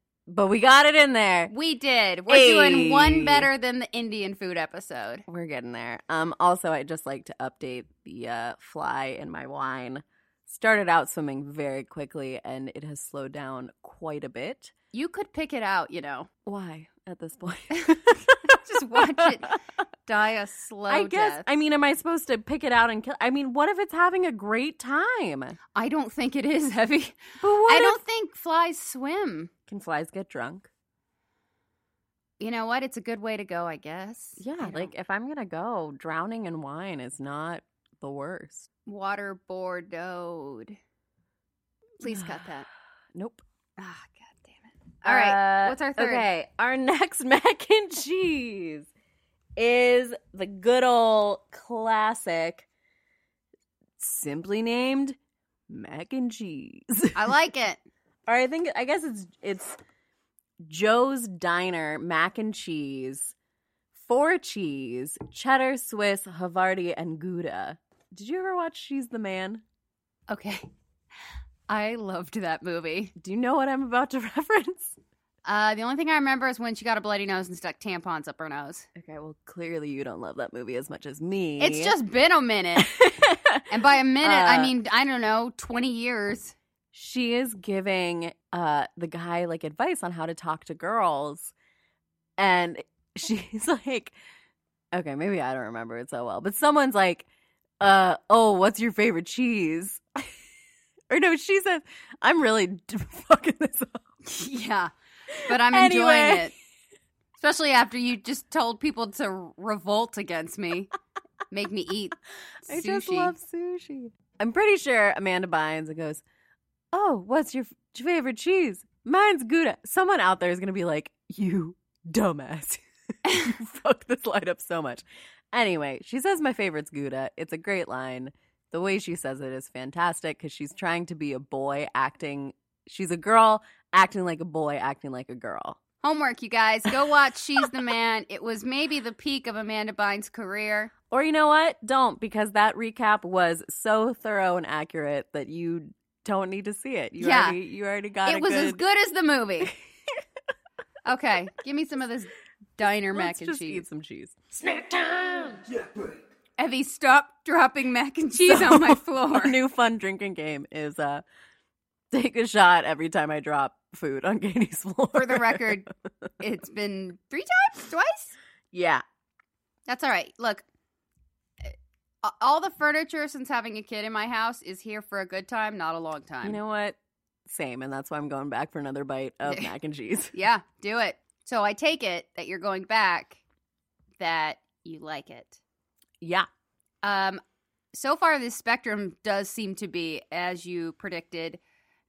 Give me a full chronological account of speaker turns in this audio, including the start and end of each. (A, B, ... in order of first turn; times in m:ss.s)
0:00.3-0:01.5 A
0:01.5-0:05.2 B
0:02.3-0:03.5 A
0:05.3-0:14.7 A
0:14.9-0:16.3 B
0:16.4-0:19.6 A
0:18.4-0:21.4 B
0:20.9-0:25.6 A
0:25.7-0:29.5 B
0:27.4-0:28.0 A
0:29.7-0:30.7 A
0:32.4-0:34.9 B
0:34.4-0:38.7 A
0:38.8-0:40.8 B
0:42.0-0:42.7 B
0:42.0-0:42.5 A
0:43.1-0:43.4 A
0:43.8-0:46.2 B
0:45.0-0:48.9 A
0:49.6-0:52.7 A
0:54.0-0:55.2 A
0:55.7-0:57.3 A
0:57.1-0:57.8 B
0:58.2-0:59.8 A
1:00.6-1:03.3 A
1:03.9-1:09.6 A
1:10.3-1:10.7 B
1:11.7-1:13.1 B
1:13.2-1:15.0 A
1:15.4-1:18.9 B
1:18.9-1:22.0 A
1:21.6-1:23.0 B
1:22.8-1:24.7 A
1:23.7-1:26.6 B
1:26.9-1:31.5 A
1:32.4-1:34.1 A
1:34.9-1:37.3 A
1:37.8-1:40.3 A
1:41.1-1:44.0 A
1:44.2-1:44.9 B
1:45.3-1:46.5 A
1:45.4-1:46.5 B
1:47.4-1:50.9 B
1:51.5-1:53.3 B
1:52.7-1:56.2 A
1:56.9-2:15.8 A
2:03.2-2:03.5 B
2:16.0-2:20.9 B
2:21.1-2:28.8 A
2:27.2-2:27.6 B
2:28.2-2:29.7 B
2:29.7-2:30.2 A
2:31.0-2:33.8 B
2:33.1-2:35.7 A
2:36.6-2:39.6 B
2:38.5-2:41.2 A
2:42.1-2:45.8 A
2:45.1-2:45.9 B
2:46.4-2:48.4 B
2:48.7-2:49.0 A
2:49.9-2:50.6 B
2:51.6-2:56.6 B
2:56.4-3:00.3 A
2:59.4-2:59.7 B
3:00.3-3:03.4 B
3:04.2-3:05.6 B
3:06.2-3:06.5 A
3:07.0-3:07.4 B
3:07.9-3:11.6 B